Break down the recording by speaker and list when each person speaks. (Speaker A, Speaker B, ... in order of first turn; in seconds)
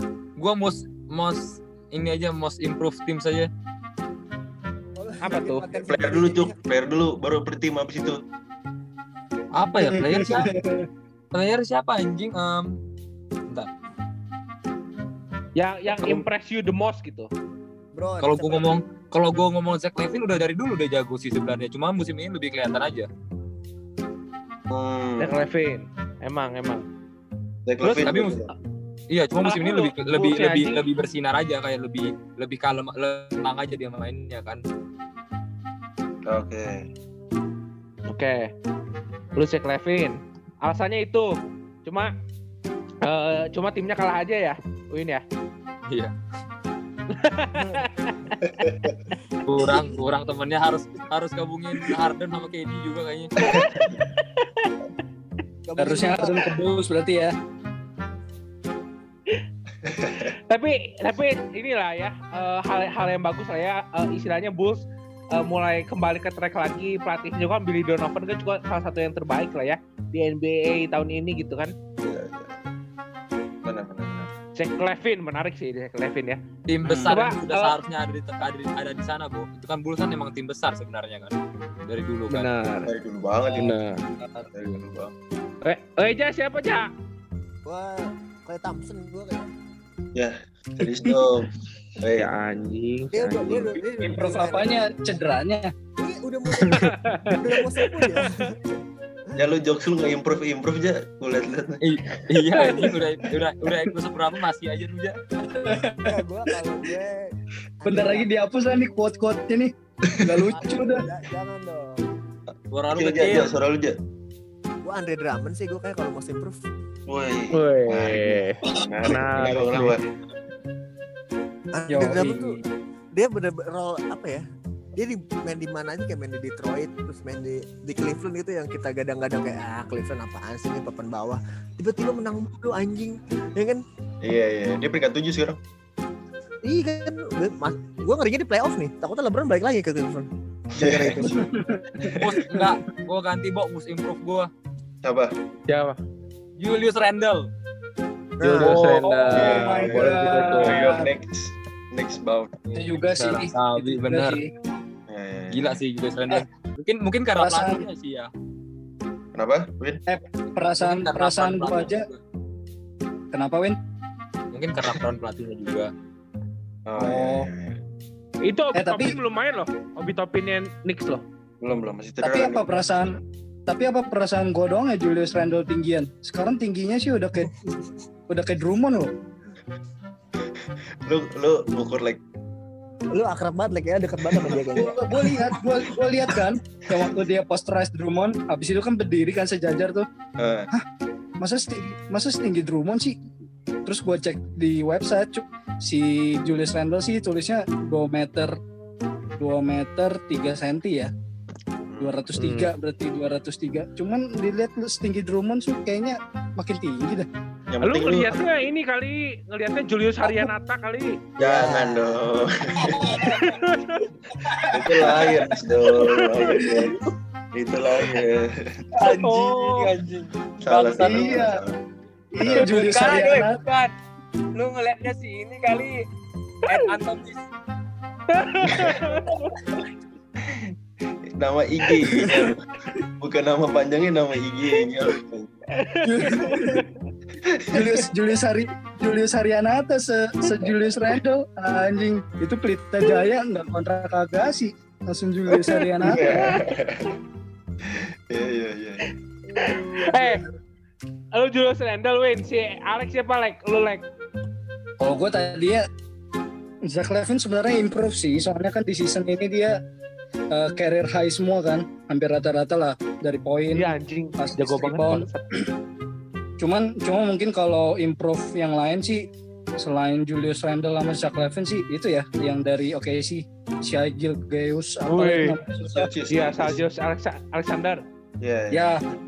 Speaker A: 0.4-3.5, 9.5-10.5, 11.3-12.8, 15.9-16.2, 18.2-23.1, 28.1-28.4, 29.1-34.6, 45.9-46.1, 49.5-53.3, 76.7-82.5, 101.8-105.2, 112.7-113.5, 142.1-144.5, 146.6-147.5, 148.6-149.7, 152.7-154.4, 155.5-158.3, 160.8-162.2, 164.5-165.9, 219.0-221.5, 222.5-223.9, 224.6-226.0, 226.7-227.4
Speaker B: 5.0-6.6, 17.9-18.7, 47.6-47.8, 55.7-56.5, 87.7-89.5, 93.1-94.7, 96.0-98.6, 106.0-108.3, 110.6-112.0, 114.8-116.6, 121.8-122.6, 123.2-124.4, 125.0-133.8, 136.7-141.5, 148.4-148.9, 183.1-185.3, 211.4-212.3, 249.5-250.4
Speaker C: 5.2-5.7, 15.6-17.3, 25.2-26.9, 27.8-28.5, 29.4-30.8, 38.1-38.5, 39.4-41.3, 41.9-42.1, 43.0-45.2, 47.1-48.9, 53.4-54.8, 60.5-71.7, 74.6-76.4, 77.1-77.7, 82.3-82.9, 83.5-84.0, 85.6-86.9, 92.1-93.8, 96.8-97.4, 117.5-120.0, 145.7-146.0, 148.4-150.9, 168.5-171.2, 202.3-202.7, 207.8-211.2, 213.2-214.1, 215.8-216.9, 219.0-219.9, 228.3-229.5, 235.8-236.9, 245.5-246.7, 249.6-250.4, 251.4-254.0, 263.7-265.5, 275.1-275.6, 276.3-278.0
Speaker D: 5.8-8.2, 24.7-25.4, 27.7-28.5, 36.3-36.9, 48.4-48.9, 59.8-60.3, 72.0-72.7, 73.6-74.3, 82.9-83.8, 84.5-85.1, 90.2-91.5, 92.0-92.3, 96.6-96.9, 99.3-102.2, 110.0-110.5, 112.9-114.0, 117.1-120.1, 134.2-135.6, 140.8-142.2, 145.0-145.3, 149.3-152.7, 155.1-155.8, 159.3-160.0, 164.8-165.1, 166.9-167.8, 171.6-172.7, 180.6-182.2, 184.3-185.6, 186.8-187.2, 190.4-190.7, 201.9-202.3, 207.7-208.5, 211.4-213.4, 214.5-217.0, 217.5-219.5, 220.6-221.8, 222.4-223.0, 228.6-229.0, 230.4-230.7, 231.4-235.7, 236.2-236.6, 237.4-238.1, 246.0-247.1, 247.8-249.1, 275.9-276.8, 278.4-279.0
Speaker E: 9.7-10.9, 55.8-57.3, 76.8-77.2, 94.0-95.7, 102.6-103.0, 105.5-106.2, 107.9-111.1, 121.9-122.6, 141.3-142.8, 149.3-151.1, 152.7-154.5, 157.4-157.8, 160.1-162.1, 163.3-163.8, 167.0-167.5, 168.8-169.2, 172.2-173.1, 173.7-177.6, 178.3-179.1, 184.8-190.1, 191.4-193.2, 193.9-198.6, 199.4-201.1, 202.0-207.3, 212.9-213.5, 214.4-215.2, 221.0-221.6, 222.3-223.6, 236.0-236.8, 237.7-246.5, 255.0-255.8, 256.9-259.8, 260.5-265.7, 266.6-269.3, 269.8-276.1, 278.7-279.0